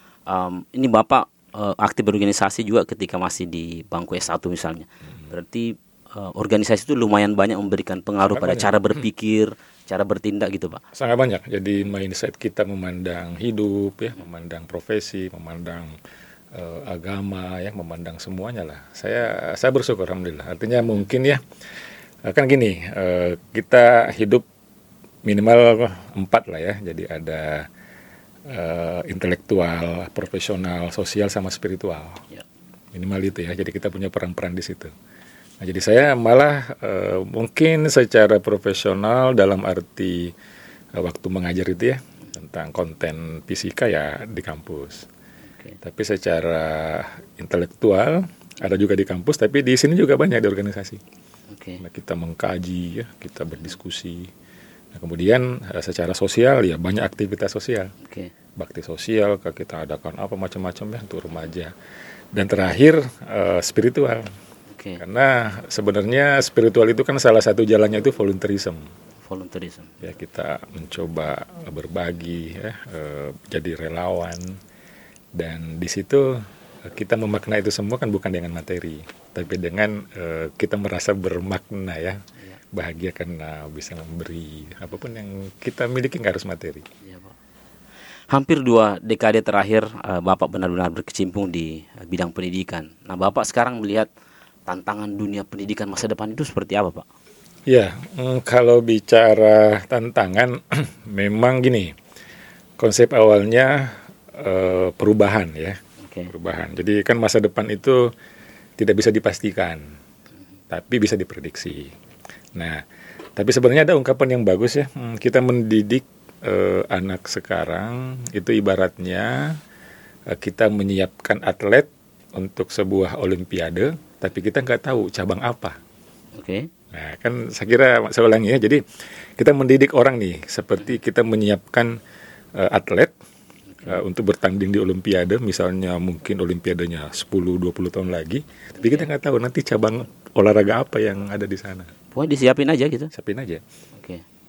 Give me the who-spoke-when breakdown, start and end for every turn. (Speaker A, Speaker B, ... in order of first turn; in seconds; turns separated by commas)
Speaker A: 0.3-10.8, Speaker B: 8.3-9.0, Speaker B: 10.9-15.9, Speaker B: 16.5-21.4, Speaker B: 22.2-24.4, Speaker B: 25.2-27.7, Speaker B: 28.5-32.2, Speaker B: 32.9-34.9, Speaker B: 35.6-40.3, Speaker B: 40.9-45.1, Speaker A: 45.5-45.8, Speaker B: 45.8-51.0, Speaker A: 51.5-51.8, Speaker B: 51.8-54.3, Speaker B: 54.9-57.9, Speaker A: 58.0-58.3, Speaker B: 58.6-61.7, Speaker B: 62.3-64.3, Speaker A: 64.7-65.0, Speaker B: 65.0-68.9, Speaker A: 69.2-70.0, Speaker B: 70.0-74.6, Speaker B: 75.3-82.2, Speaker B: 82.7-86.8, Speaker A: 87.0-87.3, Speaker A: 88.3-94.1, Speaker A: 94.7-97.1, Speaker B: 97.7-101.9, Speaker B: 102.8-108.1, Speaker A: 106.0-106.3, Speaker B: 108.8-109.8, Speaker B: 110.7-111.9, Speaker B: 112.6-112.8, Speaker B: 113.3-119.6, Speaker B: 120.3-125.8, Speaker A: 126.3-126.7, Speaker B: 126.9-128.8, Speaker B: 129.4-131.9, Speaker B: 132.6-133.1, Speaker B: 133.8-141.9, Speaker A: 138.8-139.1, Speaker A: 142.1-143.1, Speaker B: 143.1-143.6, Speaker A: 144.0-144.2